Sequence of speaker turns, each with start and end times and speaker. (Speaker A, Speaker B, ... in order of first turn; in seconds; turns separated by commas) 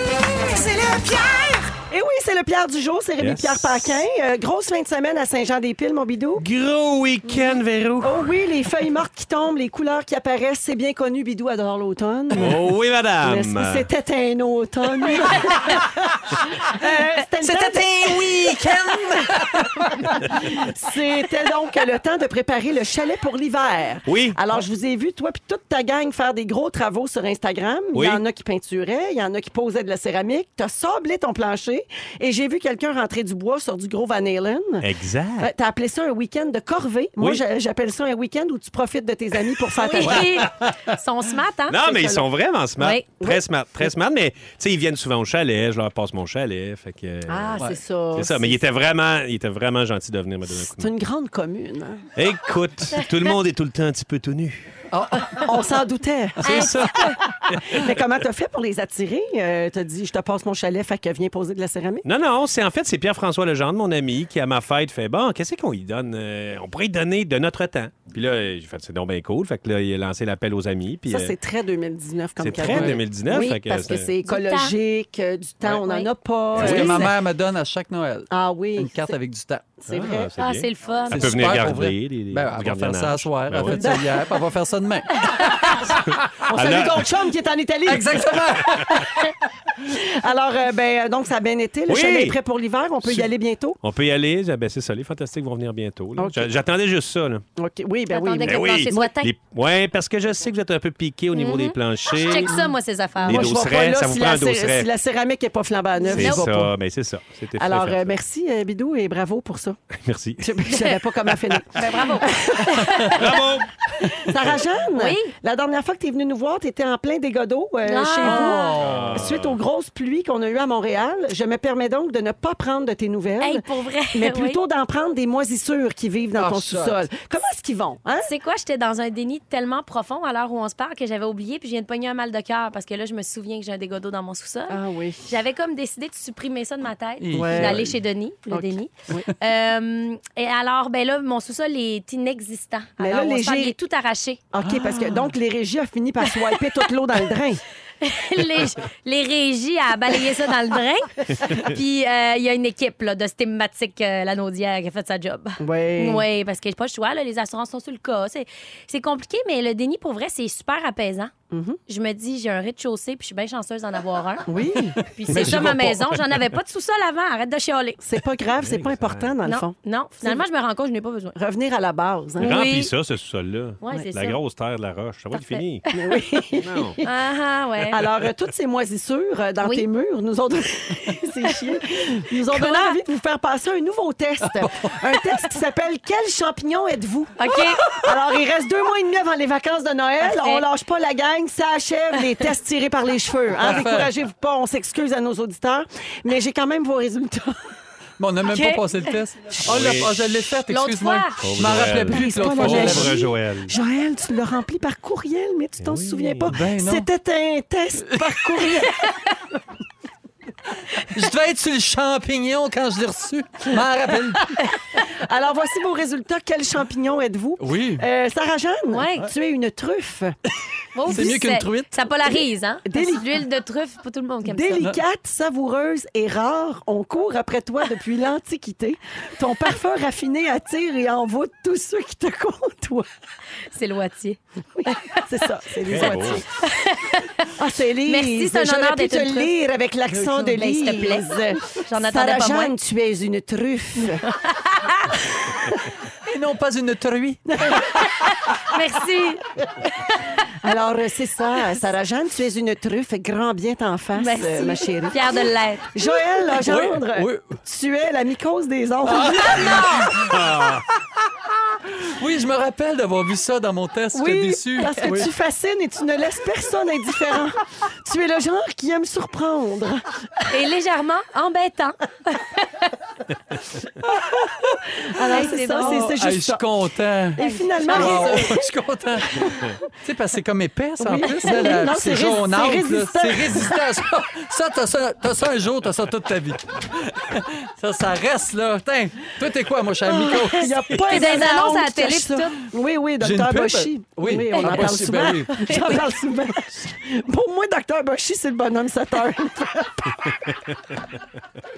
Speaker A: 0.2-6.5, Speaker B: 3.2-3.9, Speaker B: 6.4-8.3, Speaker A: 8.0-19.6, Speaker B: 12.3-13.9, Speaker C: 17.4-19.9, Speaker A: 20.2-40.5, Speaker B: 24.1-24.4, Speaker B: 27.9-28.2, Speaker B: 34.8-35.5, Speaker D: 39.8-41.8, Speaker C: 40.0-40.5, Speaker B: 41.7-47.6, Speaker A: 41.8-42.3, Speaker D: 42.8-43.0, Speaker A: 43.2-43.9, Speaker A: 47.3-48.6, Speaker B: 48.1-50.9, Speaker A: 50.5-52.1, Speaker B: 52.2-54.8, Speaker C: 54.9-55.6, Speaker A: 55.3-62.1, Speaker D: 56.4-57.2, Speaker B: 56.5-58.0, Speaker B: 62.0-71.3, Speaker A: 71.1-77.1, Speaker B: 72.4-74.1, Speaker C: 72.5-73.0, Speaker D: 73.3-73.6, Speaker D: 74.2-74.7, Speaker D: 75.8-76.1, Speaker C: 76.5-79.8, Speaker B: 76.6-77.0, Speaker A: 78.3-79.2, Speaker A: 79.8-80.3, Speaker B: 79.9-83.9, Speaker D: 80.4-81.4, Speaker C: 81.1-87.0, Speaker A: 83.6-84.3, Speaker D: 85.3-85.6, Speaker A: 85.5-85.9, Speaker A: 86.5-89.2, Speaker B: 86.5-87.1, Speaker C: 87.9-89.4, Speaker A: 89.8-93.8, Speaker B: 91.9-92.4, Speaker B: 93.0-93.3, Speaker B: 93.8-97.4, Speaker A: 96.2-96.5, Speaker A: 97.6-99.1, Speaker D: 98.1-99.3, Speaker B: 98.4-102.6, Speaker D: 101.3-103.6, Speaker A: 103.2-106.7, Speaker B: 103.2-104.9, Speaker D: 106.0-106.5, Speaker B: 106.1-108.2, Speaker A: 107.6-109.8, Speaker B: 109.9-110.6, Speaker A: 110.4-113.2, Speaker D: 111.7-113.2, Speaker B: 112.8-114.6, Speaker A: 114.2-128.3, Speaker D: 115.0-115.3, Speaker D: 117.9-118.8, Speaker C: 118.2-119.3, Speaker B: 118.8-119.6, Speaker D: 123.4-124.6, Speaker C: 126.3-127.0, Speaker D: 128.3-144.4, Speaker A: 134.7-135.4, Speaker C: 137.2-138.0, Speaker A: 137.3-137.9, Speaker A: 138.5-139.3, Speaker A: 143.0-143.8, Speaker A: 144.5-147.6, Speaker C: 144.6-145.3, Speaker D: 146.3-146.6, Speaker D: 148.0-161.3, Speaker A: 155.6-156.3, Speaker A: 161.5-161.8, Speaker D: 161.9-168.0, Speaker A: 164.5-165.0, Speaker C: 165.3-166.2, Speaker A: 168.0-170.4, Speaker B: 168.6-169.3, Speaker D: 169.4-171.4, Speaker A: 171.4-172.6, Speaker D: 172.4-172.9, Speaker B: 172.4-175.8, Speaker D: 173.8-174.4, Speaker D: 175.3-176.4, Speaker A: 175.9-177.1, Speaker B: 176.6-177.0, Speaker D: 177.0-178.0, Speaker A: 177.9-197.6, Speaker D: 182.4-183.0, Speaker C: 184.4-185.2, Speaker D: 187.4-187.8, Speaker D: 190.2-190.7, Speaker C: 193.6-194.1, Speaker C: 198.2-203.2, Speaker D: 198.5-198.8, Speaker A: 199.5-200.0, Speaker B: 199.7-200.1, Speaker D: 200.7-201.4, Speaker B: 201.4-203.8, Speaker A: 202.1-209.0, Speaker D: 202.2-202.9, Speaker B: 205.8-206.5, Speaker C: 206.4-207.1, Speaker C: 208.1-208.4, Speaker D: 208.8-209.3, Speaker C: 210.9-214.6, Speaker A: 215.1-220.4, Speaker C: 217.6-218.1, Speaker D: 218.9-219.3, Speaker D: 220.9-224.9, Speaker A: 221.1-221.4, Speaker C: 221.1-222.0, Speaker A: 222.8-223.3, Speaker A: 224.4-233.1, Speaker D: 233.7-235.2, Speaker A: 234.7-236.5, Speaker B: 235.8-236.4, Speaker D: 236.6-237.5, Speaker A: 237.5-244.2, Speaker D: 238.1-239.5, Speaker D: 240.2-242.7, Speaker D: 244.0-245.2, Speaker C: 246.2-248.1, Speaker A: 247.5-247.9, Speaker D: 248.0-249.5, Speaker A: 250.5-260.2, Speaker D: 254.2-255.9, Speaker C: 256.5-257.6, Speaker C: 259.1-260.9, Speaker B: 260.3-260.8, Speaker C: 261.5-265.3, Speaker A: 264.1-270.4, Speaker D: 270.5-272.9, Speaker A: 275.0-276.6, Speaker D: 275.3-276.1, Speaker C: 275.7-291.2, Speaker A: 277.3-278.6, Speaker D: 277.4-278.5, Speaker A: 279.2-279.9, Speaker A: 281.0-283.8, Speaker A: 290.1-300.5, Speaker D: 290.9-292.6, Speaker C: 293.2-295.9, Speaker D: 294.6-294.9, Speaker D: 295.5-296.0